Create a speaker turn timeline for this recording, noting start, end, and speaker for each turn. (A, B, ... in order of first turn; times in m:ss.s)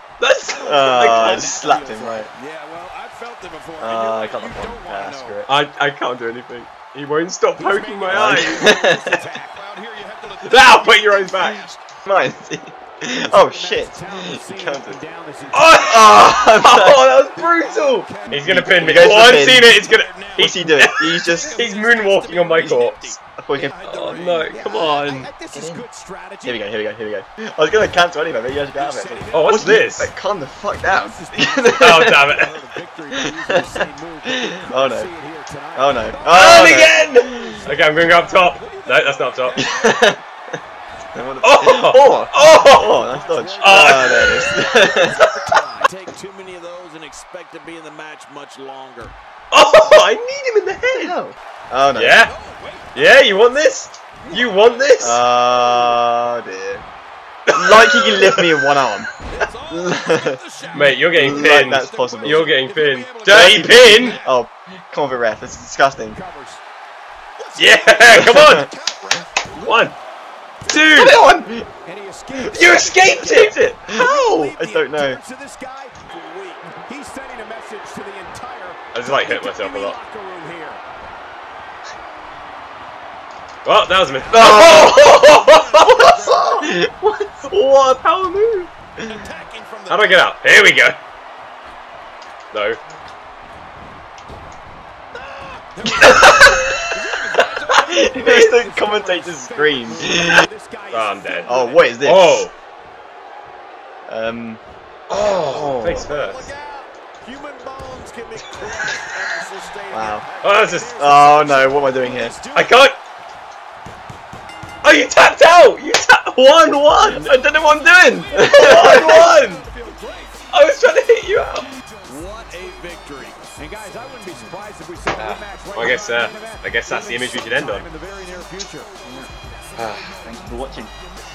0:00.2-0:01.6 A
0:00.6-0:02.3 B
0:00.9-0:05.4 C
0:03.8-0:05.5 B
0:05.5-0:08.7 A
0:07.6-0:11.8 C
0:08.1-0:09.2 B
0:10.4-0:11.7 A
0:12.0-0:15.0 B
0:13.3-0:16.6 C
0:15.5-0:23.2 A
0:15.8-0:17.0 B
0:17.2-0:20.6 C
0:18.3-0:19.7 B
0:20.4-0:21.6 B
0:21.3-0:26.6 C
0:23.4-0:23.8 B
0:23.8-0:25.3 A
0:25.5-0:25.8 B
0:26.4-0:32.5 B
0:28.8-0:29.8 C
0:29.3-0:30.1 A
0:30.8-0:40.1 C
0:31.8-0:32.6 A
0:33.1-0:33.7 B
0:34.4-0:35.1 B
0:35.8-0:37.6 B
0:36.3-0:39.7 A
0:39.6-0:40.2 B
0:41.1-0:45.2 B
0:41.4-0:43.0 A
0:42.1-0:49.1 C
0:43.6-0:44.6 A
0:49.5-0:51.2 A
0:50.9-0:52.2 B
0:51.9-0:52.3 A
0:52.2-0:53.2 C
0:52.9-0:55.2 A
0:54.3-0:54.8 C
0:55.0-0:56.8 B
0:57.5-0:58.4 A
0:57.5-0:59.1 B
0:59.3-1:04.3 C
0:59.7-1:00.4 B
1:00.7-1:04.2 A
1:01.1-1:02.5 B
1:03.3-1:06.2 B
1:06.1-1:06.6 C
1:07.4-1:09.8 C
1:07.6-1:08.7 A
1:08.1-1:08.7 B
1:09.6-1:10.0 A
1:10.7-1:11.2 A
1:10.9-1:11.7 B
1:11.8-1:21.0 C
1:12.4-1:15.2 B
1:12.4-1:13.8 A
1:18.9-1:20.0 A
1:23.6-1:25.6 A
1:24.2-1:26.7 C
1:24.3-1:25.2 B
1:25.8-1:27.6 B
1:27.5-1:28.7 A
1:28.6-1:29.3 B
1:29.0-1:30.1 C
1:29.9-1:31.0 A
1:32.5-1:32.8 A
1:35.2-1:41.9 C
1:35.8-1:36.8 B
1:36.0-1:36.5 A
1:37.8-1:40.5 B
1:40.9-1:42.5 A
1:41.5-1:42.5 B
1:44.1-1:44.6 B
1:45.1-1:46.5 A
1:45.5-1:46.1 B
1:46.0-1:52.7 C
1:49.9-1:50.3 B
1:50.4-1:51.0 A
1:51.0-1:52.4 B
1:52.5-1:53.0 A
1:54.8-1:57.4 A
1:57.0-1:59.3 B
1:57.7-2:00.5 C
1:58.4-1:59.6 A
2:00.5-2:01.7 A
2:02.0-2:09.0 C
2:04.3-2:04.6 B
2:05.2-2:07.9 A
2:09.0-2:09.3 B
2:09.7-2:10.5 C
2:09.8-2:10.2 A
2:10.2-2:10.9 B